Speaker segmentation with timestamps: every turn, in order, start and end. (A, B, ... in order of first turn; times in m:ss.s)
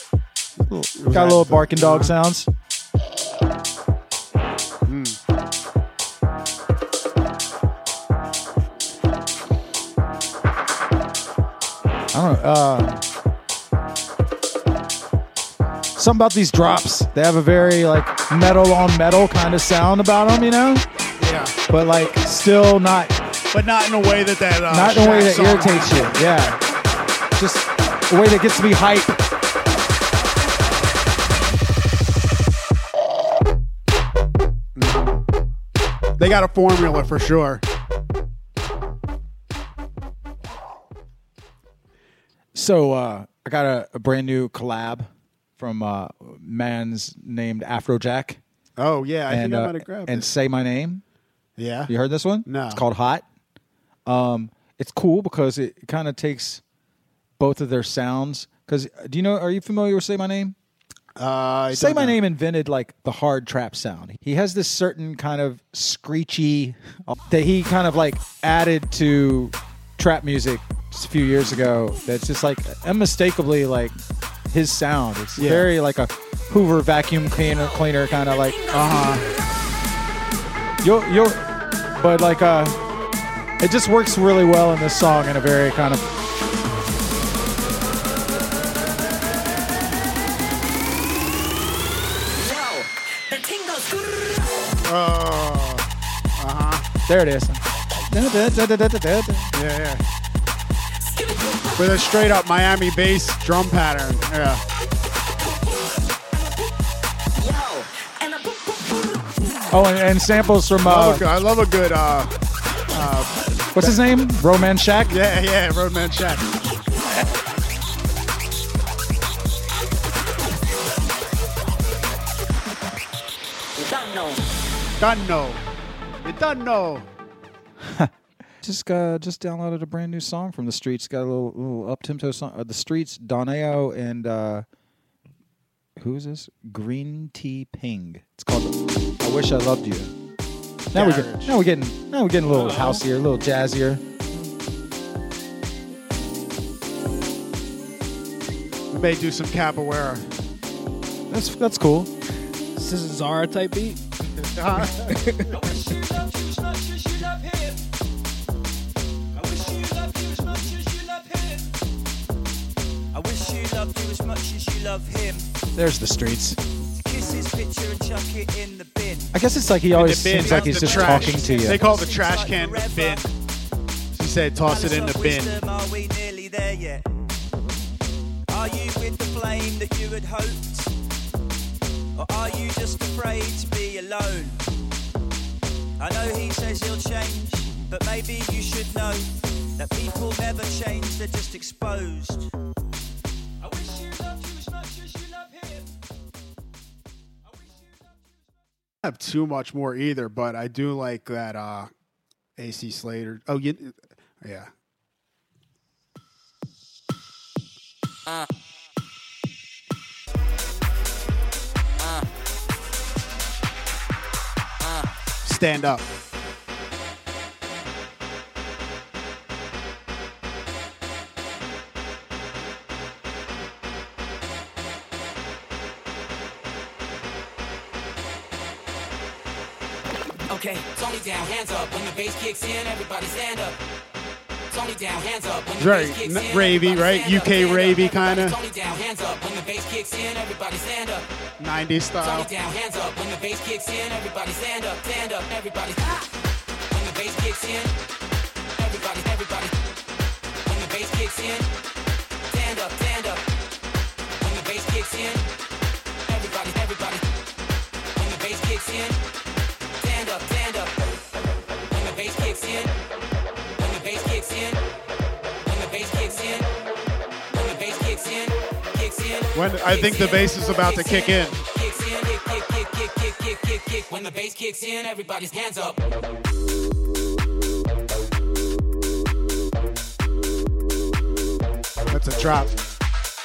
0:00.7-0:02.5 A
0:00.9-0:02.1 B
0:04.8-0:05.2 B
0:12.1-0:13.0 A
0:16.0-0:20.8 A
0:21.2-0:21.6 B
0:21.7-0:23.2 A
0:23.5-0:26.5 B
0:24.7-0:26.6 A
0:27.4-0:29.2 A
0:34.8-0:35.2 B
0:36.2-0:37.6 B
0:42.5-0:48.4 A
0:48.8-0:50.3 B
0:49.3-0:51.0 A
0:51.6-0:51.9 B
0:51.9-0:53.2 A
0:52.4-0:52.8 B
0:54.0-0:56.6 A
0:57.4-1:00.5 A
1:01.2-1:02.2 B
1:01.7-1:14.0 A
1:14.5-1:18.7 A
1:15.4-1:15.7 B
1:18.7-1:19.2 B
1:20.8-1:21.5 A
1:22.0-1:22.8 A
1:23.6-1:26.1 A
1:34.8-1:36.8 B
1:37.1-1:39.5 A
1:39.5-1:40.0 B
1:41.7-1:44.6 B
1:49.7-1:51.2 A
1:50.8-1:52.3 B
1:52.9-1:54.0 B
1:53.7-1:55.2 A
1:55.1-1:56.6 B
2:05.0-2:05.6 B
2:06.2-2:07.1 B
2:07.8-2:14.6 A
2:16.0-2:20.1 A
2:20.9-2:21.6 B
2:20.9-2:24.0 A
2:22.5-2:23.0 C
2:28.9-2:30.3 B
2:31.3-2:32.1 A
2:32.7-2:34.0 C
2:34.4-2:35.1 B
2:35.0-2:35.5 C
2:35.5-2:37.8 D
2:39.3-2:41.7 D
2:43.1-2:45.5 D
2:45.8-2:46.6 A
2:47.0-2:49.3 D
2:49.3-2:51.8 A
2:49.9-2:53.3 B
2:50.3-2:53.2 D
2:54.1-2:55.6 B
2:54.6-2:57.0 D
2:58.5-3:00.9 D
3:02.2-3:04.6 D
3:06.0-3:12.5 D
3:13.6-3:15.9 D
3:17.4-3:18.4 D
3:19.0-3:21.9 B
3:22.6-3:24.7 B
3:35.4-3:36.0 B
3:50.5-3:53.8 E
3:54.7-4:01.2 E
3:55.8-3:58.6 B
4:01.6-4:02.5 B
4:02.2-4:06.1 E
4:06.9-4:07.9 E
4:08.8-4:09.7 E
4:10.6-4:11.6 E
4:12.5-4:13.4 E
4:14.4-4:15.4 E
4:16.2-4:17.2 E
4:18.2-4:19.2 E
4:20.0-4:20.9 E
4:21.9-4:22.9 E
4:23.8-4:24.8 E
4:25.7-4:26.6 E
4:27.5-4:36.0 E
4:29.5-4:31.6 B
4:42.1-4:42.8 B